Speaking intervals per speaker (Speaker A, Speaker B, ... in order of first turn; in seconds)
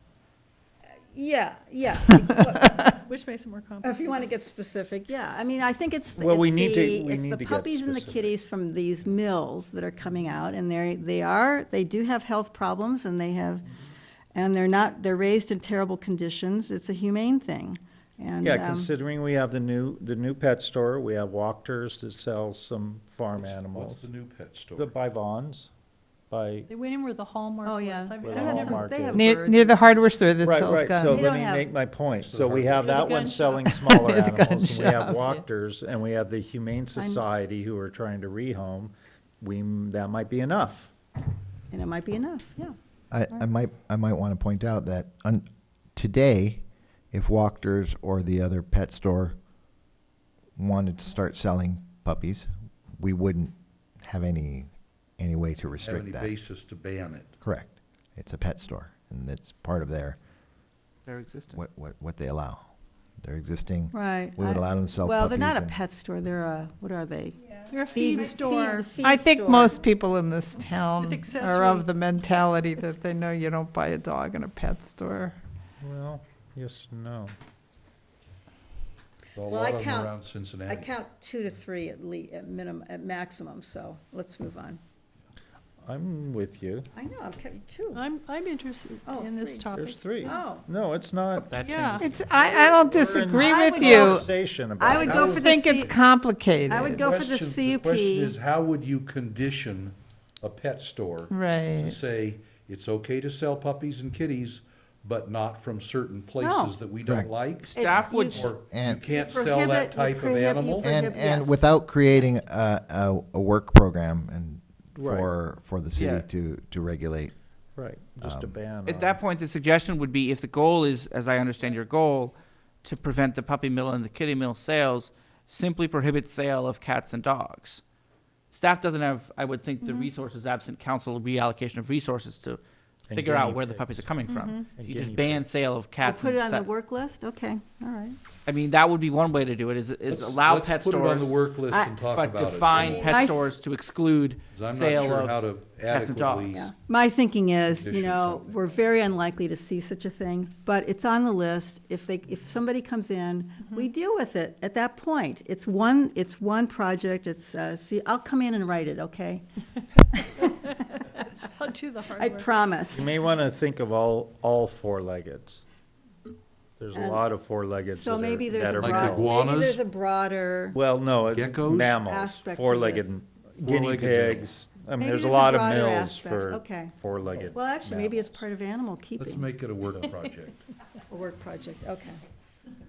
Speaker A: 1.0-3.0, 3.8-13.7, 14.3-18.9, 27.6-29.9, 31.1-31.7, 37.0-37.2, 41.7-42.8, 63.9-69.8, 79.5-80.2, 80.7-84.8, 86.9-88.0, 89.1-89.7, 90.2-90.7, 93.3-96.0, 96.7-98.3, 106.4-106.8, 107.7-112.4, 136.0-138.2, 141.7-141.9, 142.7-143.5, 146.5-159.4, 160.1-160.9, 162.2-163.1, 166.9-167.2, 167.9-170.8, 172.0-173.2, 175.0-176.9, 177.5-179.5, 181.1-182.2
Speaker B: 3.1-4.3, 26.7-29.1, 32.7-34.1, 67.7-68.9, 71.0-71.9, 87.9-90.5, 91.6-92.1, 134.3-134.7, 160.7-162.5
Speaker C: 6.2-8.1, 18.4-24.1, 24.8-25.7, 26.3-26.7, 28.2-29.3, 30.4-40.9, 75.8-77.3, 85.8-86.9, 89.7-91.6, 92.4-95.5, 115.0-115.3, 117.8-119.2, 133.1-134.1, 134.7-135.5, 162.9-165.6, 166.8-169.3, 170.7-178.4
Speaker D: 8.0-8.3, 23.4-24.9, 32.1-32.8, 55.8-57.3, 79.3-80.9, 93.5-93.8, 95.1-96.1, 96.7-107.8, 108.3-110.9, 140.1-143.1, 144.5-146.7, 147.7-148.6, 168.8-169.8, 171.3-172.0, 173.6-174.5, 179.2-180.6
Speaker E: 29.1-31.2, 33.9-35.4, 69.0-75.4, 92.0-94.3, 95.0-97.0, 101.3-102.0
Speaker F: 43.1-49.4, 50.6-56.3, 57.4-60.2, 61.5-62.6, 63.2-65.8, 108.6-109.0, 110.8-117.3, 118.2-118.6
Speaker G: 61.1-61.6, 91.5-92.0, 107.8-108.6, 115.9-116.3, 118.8-127.8, 128.5-136.7, 138.5-141.3, 142.1-146.6